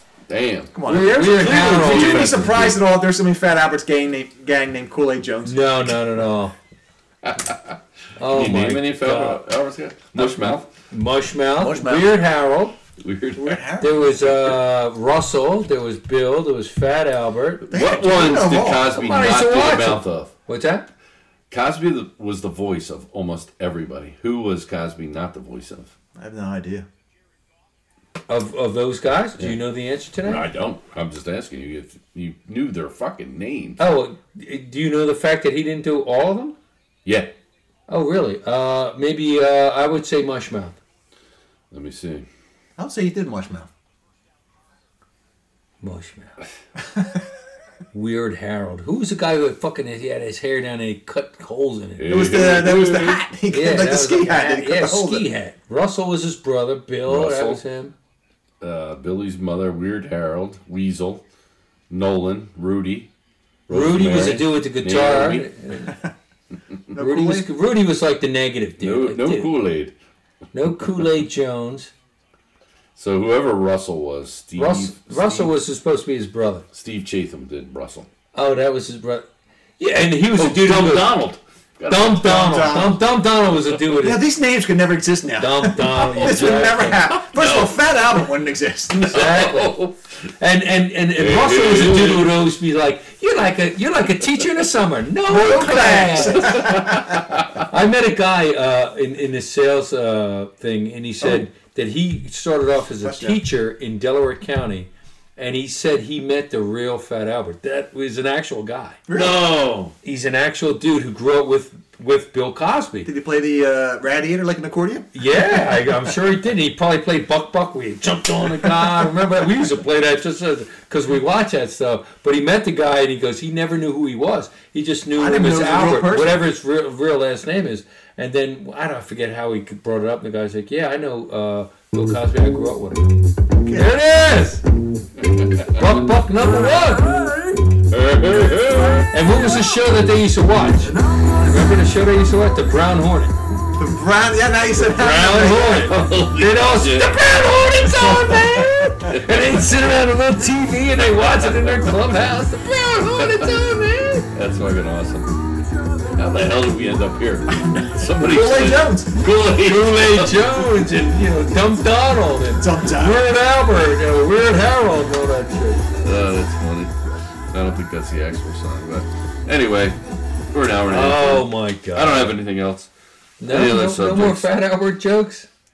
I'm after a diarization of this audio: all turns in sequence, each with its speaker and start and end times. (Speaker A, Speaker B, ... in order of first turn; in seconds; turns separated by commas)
Speaker A: 0.3-2.8, Speaker B: 0.7-5.7, Speaker C: 0.9-2.5, Speaker C: 5.5-6.5, Speaker A: 7.2-10.7, Speaker C: 8.2-9.4, Speaker C: 10.9-12.8, Speaker B: 11.6-12.2, Speaker A: 13.0-13.6, Speaker B: 13.4-14.0, Speaker C: 13.8-17.6, Speaker A: 17.6-20.3, Speaker B: 17.7-18.9, Speaker C: 18.9-20.9, Speaker A: 21.5-25.9, Speaker B: 26.1-26.9, Speaker C: 28.3-30.5, Speaker A: 30.2-33.8, Speaker C: 33.8-36.6, Speaker A: 37.0-37.3, Speaker C: 37.9-40.8, Speaker A: 41.7-42.3, Speaker B: 42.8-43.7, Speaker C: 45.8-46.4, Speaker C: 47.9-52.3, Speaker A: 52.0-53.2, Speaker B: 52.1-55.3, Speaker C: 53.5-57.9, Speaker A: 57.1-57.6, Speaker A: 58.6-61.2, Speaker A: 61.9-63.1, Speaker A: 63.7-65.5, Speaker C: 63.7-66.0, Speaker B: 66.9-67.5, Speaker C: 67.0-69.5, Speaker A: 68.8-69.9, Speaker C: 70.5-71.9, Speaker A: 73.0-75.5, Speaker C: 74.6-76.7, Speaker A: 76.7-78.1, Speaker C: 78.3-79.3, Speaker C: 79.8-81.2, Speaker A: 80.3-82.7, Speaker C: 81.9-84.2, Speaker B: 82.1-83.0, Speaker B: 84.0-89.3, Speaker C: 85.4-87.0, Speaker A: 86.2-86.6, Speaker A: 87.2-87.8, Speaker A: 88.9-90.0, Speaker C: 89.1-89.8, Speaker C: 90.4-96.6, Speaker A: 91.2-92.4, Speaker B: 95.3-97.4, Speaker A: 96.3-97.7, Speaker C: 97.7-109.0, Speaker B: 103.0-103.4, Speaker B: 109.1-109.5, Speaker A: 109.1-109.9, Speaker C: 110.0-113.1, Speaker B: 113.0-115.1, Speaker C: 115.1-133.1, Speaker B: 125.1-126.4, Speaker B: 133.6-133.9, Speaker C: 133.7-134.6, Speaker A: 135.2-135.8, Speaker C: 135.7-137.2, Speaker B: 136.8-137.8, Speaker A: 137.9-139.1, Speaker C: 139.1-143.3, Speaker B: 140.8-141.4, Speaker B: 143.8-145.9, Speaker C: 144.7-154.3, Speaker A: 145.7-149.8, Speaker A: 150.9-155.3, Speaker A: 156.1-160.6, Speaker B: 157.5-159.2, Speaker C: 159.5-165.9, Speaker B: 162.6-163.3, Speaker A: 166.0-167.0, Speaker A: 167.5-170.0, Speaker A: 170.5-172.9, Speaker C: 170.9-172.4, Speaker C: 173.4-175.5, Speaker A: 173.4-174.5